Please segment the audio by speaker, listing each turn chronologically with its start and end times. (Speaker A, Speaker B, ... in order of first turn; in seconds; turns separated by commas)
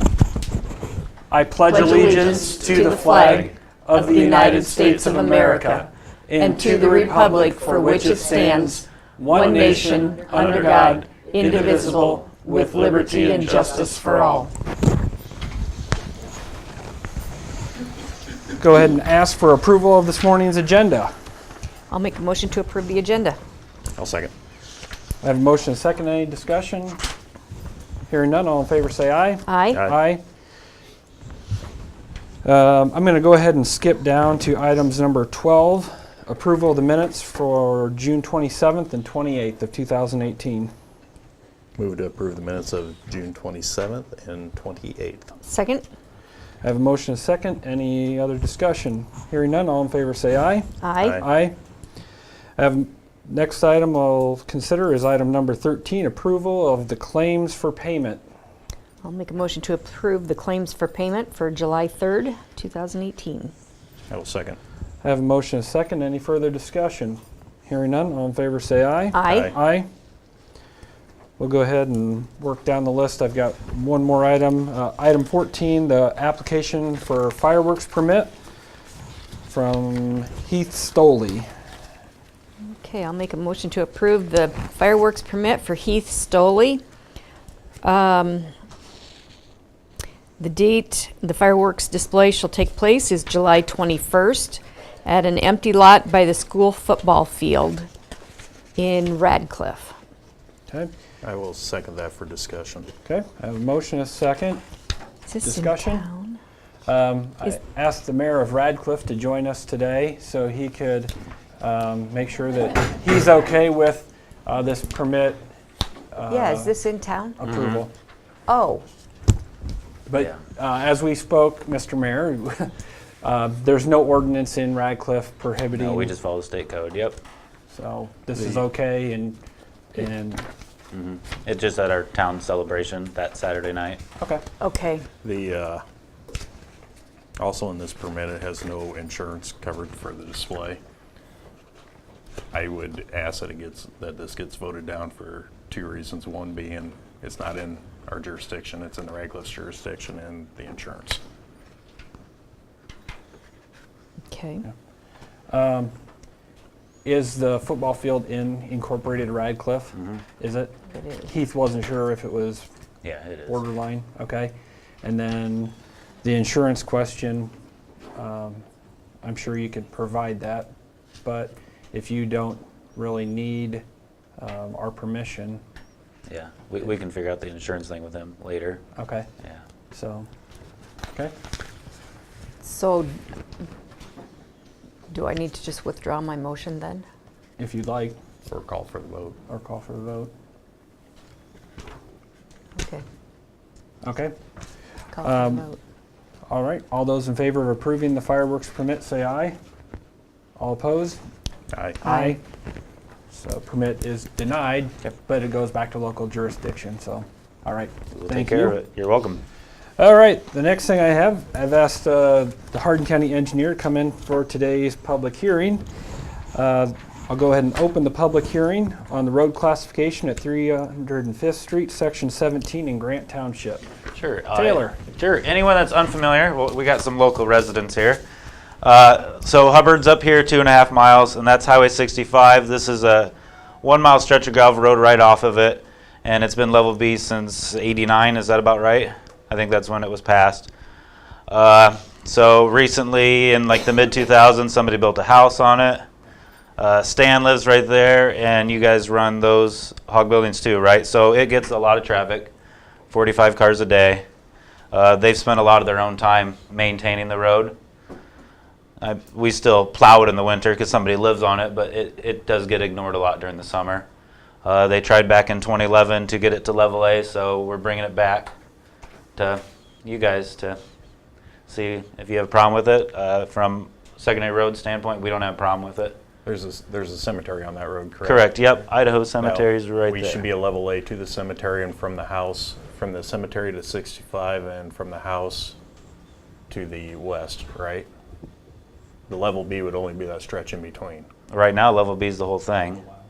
Speaker A: 1.3-14.5, Speaker B: 1.7-5.8, Speaker B: 6.4-14.5, Speaker A: 18.6-21.1, Speaker B: 21.9-23.4, Speaker C: 23.9-24.3, Speaker A: 25.2-27.0, Speaker A: 28.1-30.2, Speaker B: 29.5-29.9, Speaker A: 32.4-40.7, Speaker C: 41.8-45.3, Speaker B: 45.4-45.9, Speaker A: 46.6-51.6, Speaker B: 50.8-51.2, Speaker A: 52.6-58.2, Speaker B: 59.0-63.5, Speaker C: 64.1-64.6, Speaker A: 65.0-69.9, Speaker B: 69.1-69.5, Speaker C: 69.3-69.5, Speaker A: 71.4-78.3, Speaker A: 79.5-81.5, Speaker B: 82.7-86.8, Speaker B: 87.8-88.5, Speaker B: 90.4-97.9, Speaker B: 98.8-100.0, Speaker C: 101.2-102.9, Speaker A: 103.0-104.6, Speaker B: 105.3-106.4, Speaker A: 105.4-106.1, Speaker A: 106.8-115.4, Speaker A: 116.1-116.7, Speaker B: 116.3-117.4, Speaker A: 117.4-117.9, Speaker D: 117.5-117.8, Speaker B: 118.5-118.8, Speaker A: 120.1-126.1, Speaker D: 125.7-127.2, Speaker A: 127.7-129.4, Speaker C: 128.3-128.6, Speaker A: 129.9-130.4, Speaker D: 130.9-134.0, Speaker A: 134.2-134.4, Speaker B: 134.6-135.1, Speaker C: 135.2-135.8, Speaker C: 137.4-140.8, Speaker C: 142.5-151.2, Speaker B: 154.3-154.7, Speaker A: 155.5-155.9, Speaker A: 157.0-162.7, Speaker B: 160.9-161.3, Speaker D: 163.0-163.6, Speaker A: 163.5-167.5, Speaker A: 168.2-168.6, Speaker A: 169.2-170.7, Speaker A: 171.2-173.8, Speaker A: 174.4-175.6, Speaker D: 176.3-178.8, Speaker A: 178.9-179.3, Speaker A: 179.9-180.3, Speaker B: 182.6-183.2, Speaker B: 185.1-187.0, Speaker A: 187.6-188.2, Speaker C: 188.4-189.4, Speaker A: 189.5-190.3, Speaker B: 192.8-193.0, Speaker A: 194.0-194.3, Speaker B: 195.1-195.8, Speaker A: 195.2-195.7, Speaker A: 196.5-199.6, Speaker A: 200.6-201.2, Speaker C: 201.7-202.0, Speaker A: 202.0-202.4, Speaker B: 202.0-202.3, Speaker A: 203.3-208.8, Speaker D: 208.1-209.4, Speaker A: 210.0-215.8, Speaker A: 216.5-223.9, Speaker D: 224.1-228.2, Speaker A: 224.5-225.0, Speaker D: 228.8-240.7, Speaker D: 241.5-246.0, Speaker D: 246.8-252.5, Speaker D: 253.1-254.2, Speaker D: 254.9-257.8, Speaker D: 259.0-264.1, Speaker D: 264.6-268.5, Speaker D: 269.4-270.8, Speaker D: 271.7-276.2, Speaker C: 276.4-278.4, Speaker D: 278.2-280.5, Speaker C: 279.4-285.8, Speaker C: 286.7-288.1, Speaker C: 289.3-291.3, Speaker D: 291.5-293.0